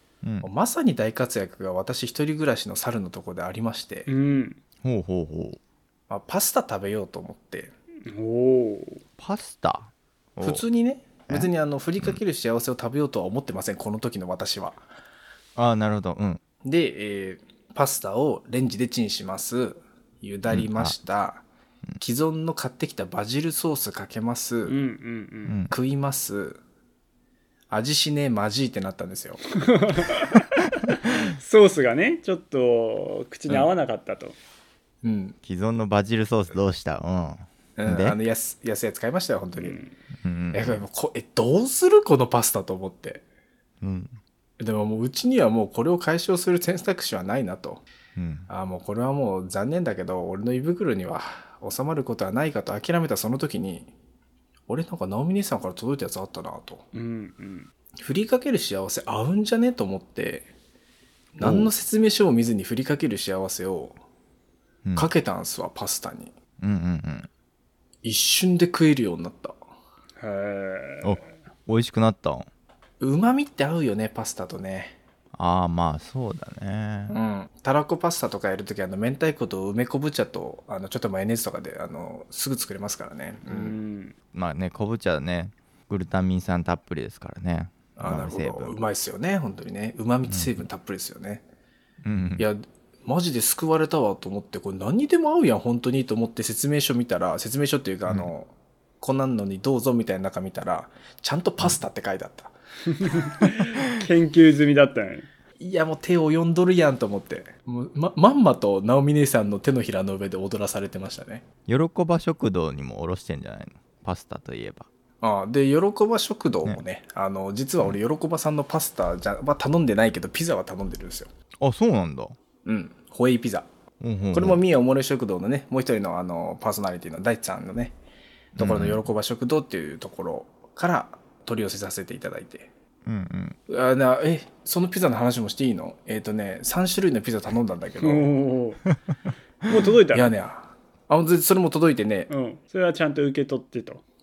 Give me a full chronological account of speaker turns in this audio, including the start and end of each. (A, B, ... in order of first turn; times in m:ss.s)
0:00.2-0:00.5 A
0:00.4-0:04.1 B
0:04.1-0:04.6 C
0:04.8-0:05.6 A
0:06.1-0:07.7 B
0:08.1-0:09.0 C
0:09.2-0:10.6 A
0:10.4-0:14.8 B
0:15.6-0:16.4 A
0:16.6-0:21.4 B
0:20.5-0:21.0 A
0:22.0-0:24.8 B
0:24.7-0:25.6 C
0:25.4-0:25.7 A
0:25.7-0:26.6 B
0:27.7-0:29.4 B
0:29.7-0:34.4 C
0:35.0-0:35.4 B
0:35.4-0:38.2 A
0:37.8-0:39.8 B
0:39.6-0:39.9 C
0:40.2-0:40.8 A
0:40.5-0:43.2 B
0:43.8-0:44.2 A
0:44.6-0:47.8 B
0:48.2-0:48.5 A
0:48.5-0:53.9 B
0:54.7-0:56.8 B
0:56.9-0:57.7 C
0:58.0-1:00.5 B
1:01.4-1:04.0 B
1:01.4-1:01.7 A
1:04.8-1:05.1 A
1:05.0-1:06.3 B
1:06.6-1:07.3 A
1:08.0-1:09.6 B
1:10.2-1:11.3 C
1:11.0-1:12.5 A
1:13.0-1:15.0 B
1:15.3-1:17.2 A
1:17.1-1:23.8 B
1:23.5-1:24.2 C
1:24.3-1:28.8 A
1:28.0-1:31.4 B
1:30.3-1:30.6 A
1:32.0-1:32.5 A
1:32.4-1:42.5 B
1:38.1-1:38.3 A
1:42.9-1:45.3 C
1:45.6-1:51.4 B
1:51.7-1:54.9 A
1:55.2-2:01.3 B
2:01.6-2:02.4 A
2:02.6-2:03.7 B
2:04.0-2:04.6 A
2:04.3-2:08.0 B
2:08.6-2:09.0 A
2:08.6-2:12.7 B
2:13.1-2:13.6 A
2:13.7-2:18.4 B
2:18.0-2:18.8 C
2:19.7-2:20.3 C
2:20.1-2:22.3 B
2:22.3-2:24.0 C